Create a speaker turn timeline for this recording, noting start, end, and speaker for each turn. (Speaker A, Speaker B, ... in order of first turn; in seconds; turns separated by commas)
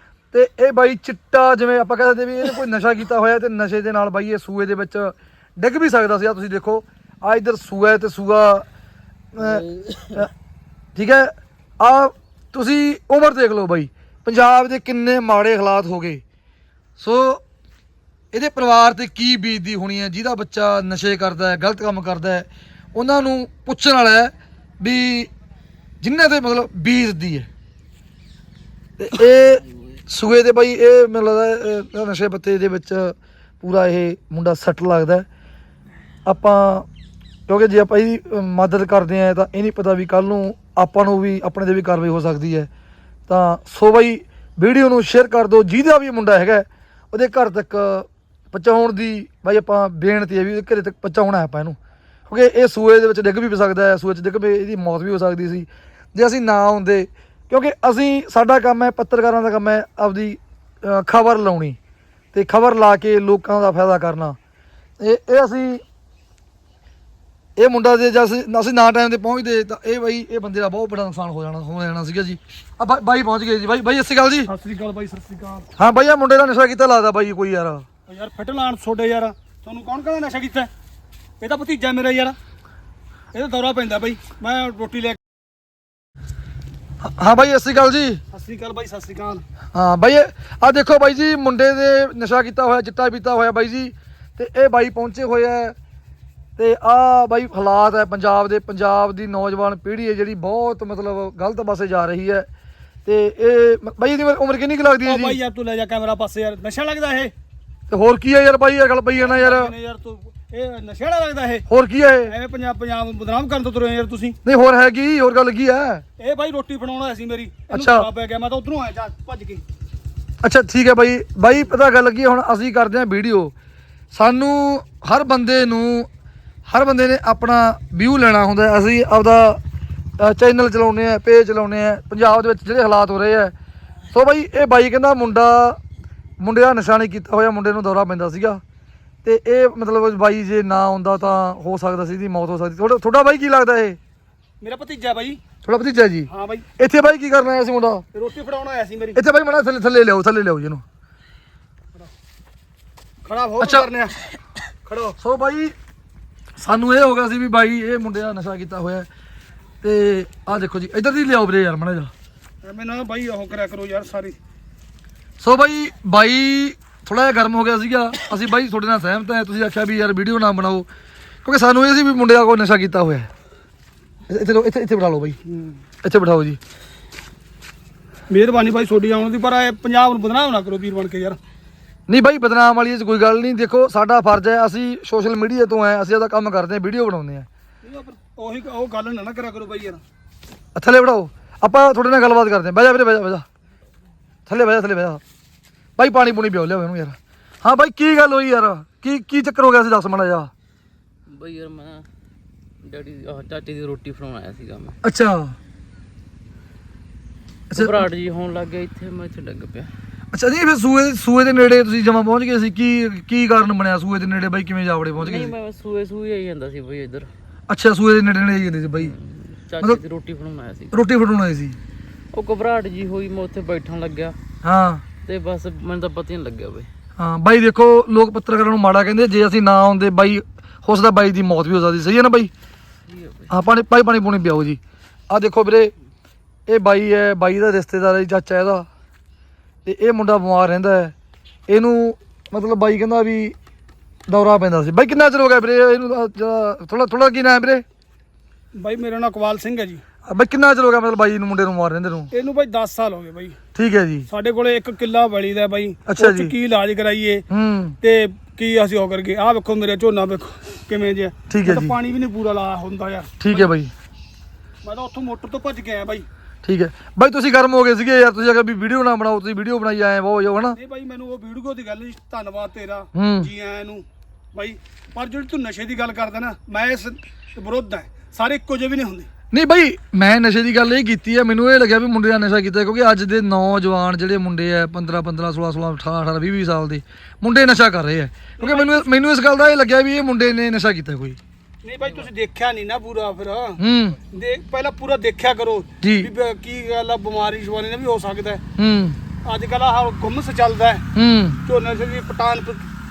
Speaker A: 0.3-8.7, Speaker A: 9.3-9.7, Speaker B: 9.4-10.2, Speaker A: 11.0-16.2, Speaker A: 17.0-17.4, Speaker A: 18.3-25.3, Speaker A: 26.0-27.5, Speaker A: 29.0-35.3, Speaker A: 36.3-36.9, Speaker A: 37.5-42.7, Speaker A: 43.3-51.8, Speaker A: 52.3-61.8, Speaker A: 62.3-64.4, Speaker A: 65.0-65.8, Speaker A: 67.6-74.5, Speaker C: 74.5-75.7, Speaker A: 75.8-77.9, Speaker C: 78.1-80.7, Speaker C: 81.4-82.4, Speaker C: 83.3-85.2, Speaker A: 87.0-88.2, Speaker C: 88.3-89.5, Speaker A: 89.7-95.8, Speaker A: 96.6-102.5, Speaker A: 103.1-105.4, Speaker C: 105.0-107.3, Speaker A: 107.9-109.7, Speaker C: 109.2-111.7, Speaker A: 111.7-112.3, Speaker C: 112.2-114.4, Speaker A: 114.5-116.0, Speaker C: 116.2-119.6, Speaker A: 117.7-118.1, Speaker A: 120.4-123.5, Speaker A: 124.1-126.1, Speaker A: 126.7-129.6, Speaker A: 130.2-133.5, Speaker A: 134.1-135.8, Speaker A: 136.4-138.6, Speaker A: 139.2-144.0, Speaker C: 144.6-145.4, Speaker A: 145.7-146.3, Speaker C: 146.3-146.7, Speaker A: 146.8-148.1, Speaker C: 148.1-149.2, Speaker A: 149.2-150.8, Speaker C: 153.2-154.2, Speaker A: 153.6-153.9, Speaker C: 154.8-155.2, Speaker A: 155.2-155.7, Speaker A: 156.6-159.1, Speaker A: 159.8-162.1, Speaker C: 162.6-164.4, Speaker A: 165.4-170.9, Speaker A: 171.4-173.3, Speaker A: 174.3-175.4, Speaker C: 175.4-175.8, Speaker A: 176.0-176.6, Speaker C: 178.3-181.4, Speaker A: 182.1-187.5, Speaker C: 187.8-190.0, Speaker A: 190.8-193.5, Speaker A: 194.5-195.2, Speaker A: 196.0-200.5, Speaker B: 201.3-202.1, Speaker B: 202.8-205.0, Speaker A: 205.0-205.6, Speaker A: 207.7-208.1, Speaker B: 207.7-209.9, Speaker A: 210.3-215.6, Speaker B: 215.2-217.3, Speaker A: 217.7-219.1, Speaker B: 219.0-221.0, Speaker A: 220.9-221.8, Speaker B: 222.3-224.4, Speaker A: 224.6-225.0, Speaker B: 225.2-226.9, Speaker A: 227.2-232.5, Speaker B: 233.1-233.5, Speaker A: 233.5-234.8, Speaker A: 235.3-235.9, Speaker A: 236.7-238.9, Speaker A: 239.9-241.1, Speaker A: 241.7-243.6, Speaker A: 244.3-247.8, Speaker C: 248.8-250.0, Speaker A: 250.3-252.3, Speaker C: 252.3-253.6, Speaker A: 253.8-254.3, Speaker C: 254.3-257.4, Speaker A: 256.1-256.5, Speaker A: 257.5-258.0, Speaker C: 258.0-263.7, Speaker A: 261.5-261.9, Speaker A: 263.4-263.9, Speaker C: 264.8-266.3, Speaker A: 266.6-270.8, Speaker C: 270.7-279.3, Speaker A: 273.1-273.5, Speaker A: 279.5-291.4, Speaker C: 288.6-289.1, Speaker C: 291.8-298.6, Speaker A: 293.8-294.2, Speaker A: 296.0-296.3, Speaker A: 298.8-299.2, Speaker C: 299.4-301.1, Speaker A: 301.1-301.6, Speaker C: 301.6-302.9